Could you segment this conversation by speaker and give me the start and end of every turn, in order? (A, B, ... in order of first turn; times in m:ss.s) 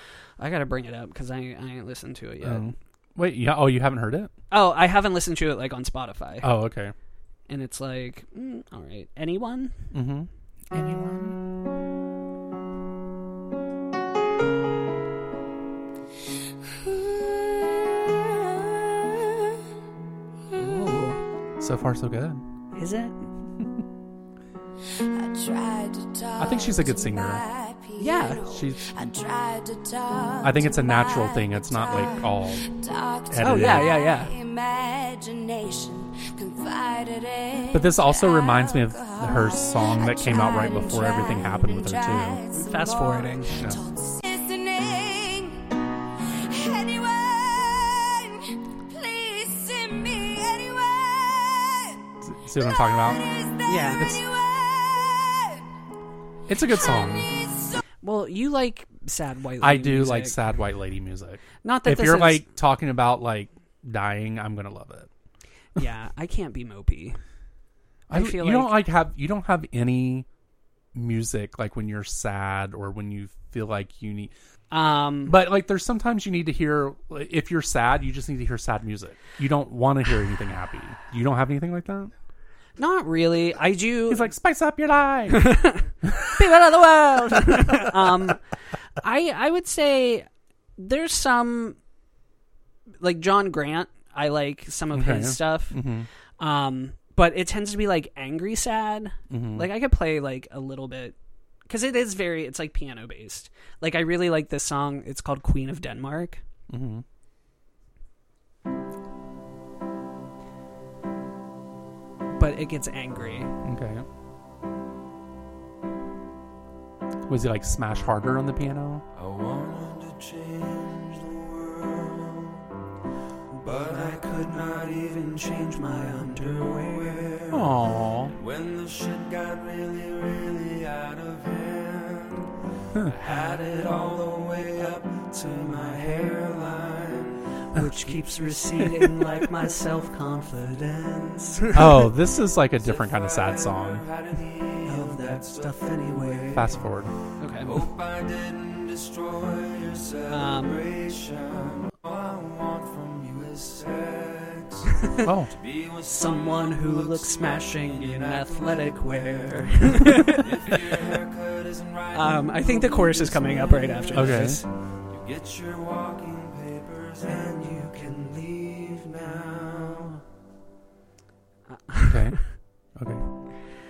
0:00.4-0:02.7 A
0:02.4-0:04.3 B
0:04.5-0:06.5 A
0:06.4-0:06.9 B
0:07.5-0:09.8 A
0:09.9-0:11.4 B
0:20.6-0:21.2 A
0:21.6-0:22.4 B
0:22.7-0:23.3 A
0:24.9-0:45.7 C
0:26.4-0:27.4 B
0:28.0-0:28.4 A
0:28.5-0:28.9 B
0:30.4-0:32.7 B
0:33.3-0:33.9 B
0:33.4-0:34.3 A
0:37.7-0:42.4 B
0:42.5-0:43.5 A
0:46.5-0:52.0 C
0:52.2-0:53.2 B
0:52.6-0:55.7 C
0:53.7-0:54.0 A
0:56.5-0:57.3 B
0:56.7-0:57.8 C
0:58.0-1:00.4 A
0:59.6-1:05.1 B
1:01.6-1:02.5 A
1:05.8-1:07.2 A
1:08.1-1:10.3 B
1:08.1-1:08.8 A
1:10.9-1:14.3 B
1:14.7-1:15.4 A
1:15.3-1:22.1 B
1:22.8-1:24.3 A
1:24.1-1:25.5 B
1:25.3-1:28.4 A
1:26.0-1:26.4 B
1:27.4-1:27.9 B
1:29.0-1:30.3 A
1:30.8-1:31.8 A
1:33.0-1:35.8 A
1:34.9-1:36.1 B
1:36.4-1:41.2 A
1:39.3-1:39.7 B
1:41.7-1:46.4 A
1:46.7-1:47.0 B
1:52.3-1:53.5 A
1:53.6-1:54.0 B
1:57.3-1:59.0 B
1:59.2-2:02.6 D
2:03.5-2:07.7 D
2:05.6-2:07.2 A
2:07.5-2:08.4 B
2:08.3-2:21.7 D
2:13.2-2:13.6 A
2:17.7-2:22.1 A
2:21.7-2:24.0 B
2:22.8-2:26.8 D
2:24.8-2:26.4 A
2:26.5-2:27.1 B
2:27.4-2:27.9 A
2:27.6-2:50.2 D
2:30.3-2:30.8 A
2:35.2-2:35.5 B
2:36.1-2:40.8 A
2:42.1-2:44.6 A
2:44.1-2:44.6 B
2:51.7-2:52.5 A
2:52.0-2:53.2 B